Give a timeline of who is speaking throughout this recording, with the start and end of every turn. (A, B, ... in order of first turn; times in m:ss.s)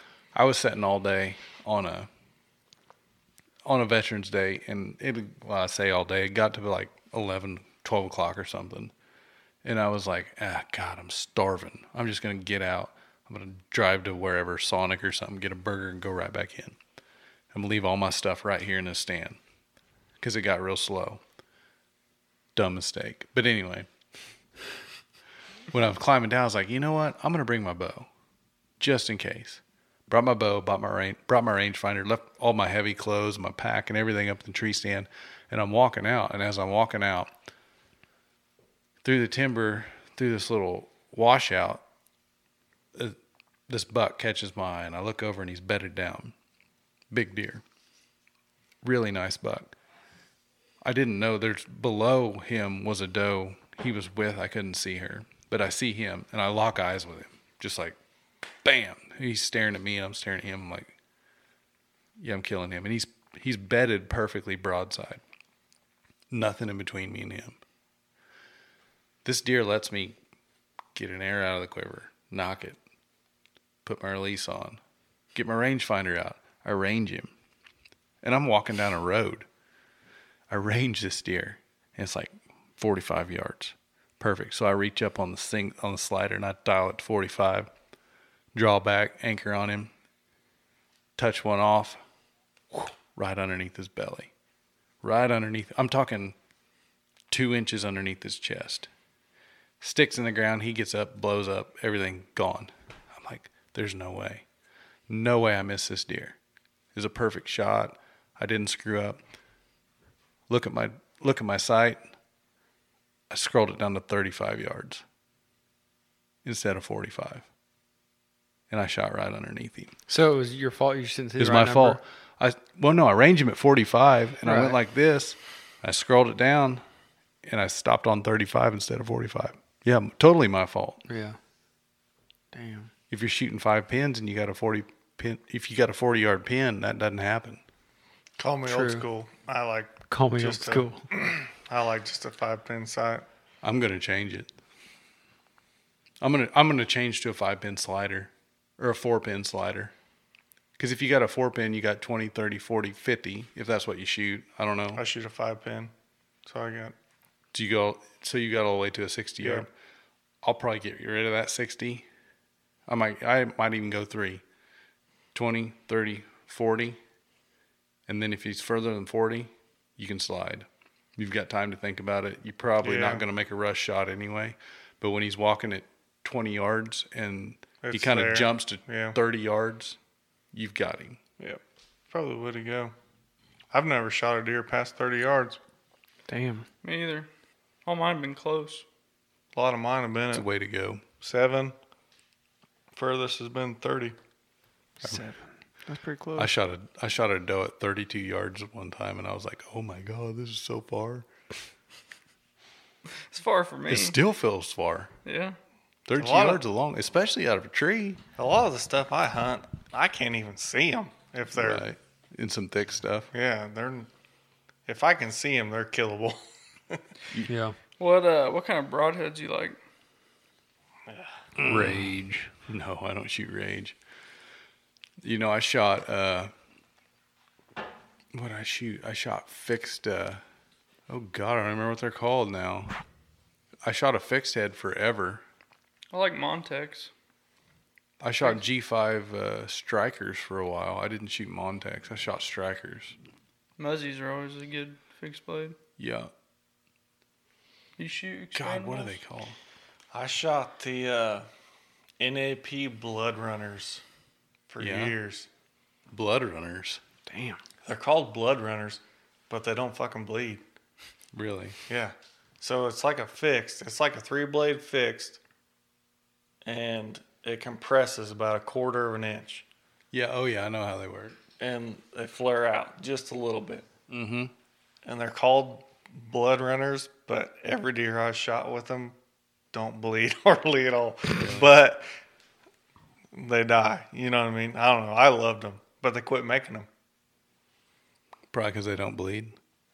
0:00.3-0:02.1 A
0:03.6-0:08.9 A
0:09.6-0:16.8 A
0:17.5-0:19.4 A
0:20.2-0:21.2 A
0:22.5-0:23.9 A
0:25.7-0:28.1 A
0:28.8-0:37.3 A
0:39.0-0:41.8 A
0:43.7-0:46.3 A
0:47.1-0:47.6 A
0:48.8-0:49.7 A
0:50.8-0:58.0 A
0:58.6-1:00.9 A
1:02.2-1:05.2 A
1:06.3-1:07.6 A
1:09.2-1:10.2 A
1:10.9-1:12.8 A
1:13.8-1:14.8 A
1:15.3-1:17.3 A
1:18.2-1:19.5 A
1:20.5-1:27.7 A
1:28.5-1:29.9 A
1:31.2-1:32.0 A
1:32.7-1:34.3 A
1:35.0-1:36.3 A
1:37.3-1:38.9 A
1:39.8-1:44.4 A
1:45.1-1:46.4 A
1:46.9-1:49.2 A
1:50.5-1:52.0 A
1:53.3-1:55.0 A
1:56.4-1:57.4 A
1:58.7-1:59.9 A
2:00.1-2:02.0 B
2:01.4-2:06.8 A
2:04.4-2:04.8 B
2:07.4-2:11.0 A
2:11.1-2:11.4 B
2:12.5-2:12.9 B
2:13.1-2:17.6 A
2:18.4-2:23.2 C
2:18.6-2:19.1 B
2:20.1-2:21.0 B
2:23.6-2:24.5 A
2:26.2-2:29.9 A
2:30.8-2:35.0 A
2:34.9-2:35.9 C
2:36.4-2:36.9 C
2:37.5-2:39.7 A
2:39.4-2:39.6 C
2:40.4-2:42.1 A
2:42.9-2:44.4 A
2:45.3-2:47.0 A
2:48.1-3:00.0 A
2:52.8-2:53.2 C
2:57.8-2:59.2 C
3:00.5-3:01.2 A
3:01.4-3:02.9 C
3:03.7-3:05.6 C
3:06.3-3:06.6 B
3:06.8-3:07.3 D
3:07.8-3:08.8 D
3:09.5-3:10.5 C
3:10.3-3:11.0 A
3:11.2-3:11.7 C
3:12.9-3:14.2 C
3:15.0-3:15.3 C
3:15.9-3:16.5 B
3:16.4-3:21.3 A
3:23.3-3:24.2 D
3:23.9-3:25.1 A
3:25.2-3:25.6 D
3:26.1-3:28.2 A
3:26.1-3:26.6 C
3:28.4-3:31.8 C
3:31.5-3:33.3 A
3:33.3-3:34.1 C
3:34.9-3:37.0 C
3:37.5-3:37.7 B
3:38.0-3:39.8 D
3:41.1-3:41.3 C
3:41.6-3:42.0 A
3:41.6-3:42.5 B
3:42.7-3:44.0 A
3:45.2-3:46.5 A
3:48.3-3:50.4 A
3:51.1-3:52.9 A
3:53.8-3:55.4 A
3:56.1-3:57.1 D
3:58.2-4:03.2 A
4:03.8-4:05.8 D
4:06.0-4:06.3 A
4:08.0-4:09.2 D
4:08.5-4:09.6 A
4:10.1-4:11.4 C
4:12.2-4:14.0 C
4:14.7-4:15.5 C
4:14.8-4:15.2 A
4:16.1-4:17.0 A
4:17.3-4:17.6 B
4:17.8-4:20.6 C
4:21.3-4:21.8 A
4:21.9-4:25.4 C
4:26.6-4:29.6 C
4:30.1-4:31.4 A
4:31.6-4:33.8 C
4:34.1-4:34.5 A
4:35.0-4:39.2 C
4:39.7-4:42.1 C
4:41.3-4:41.7 A
4:43.3-4:46.9 C
4:48.5-4:49.6 A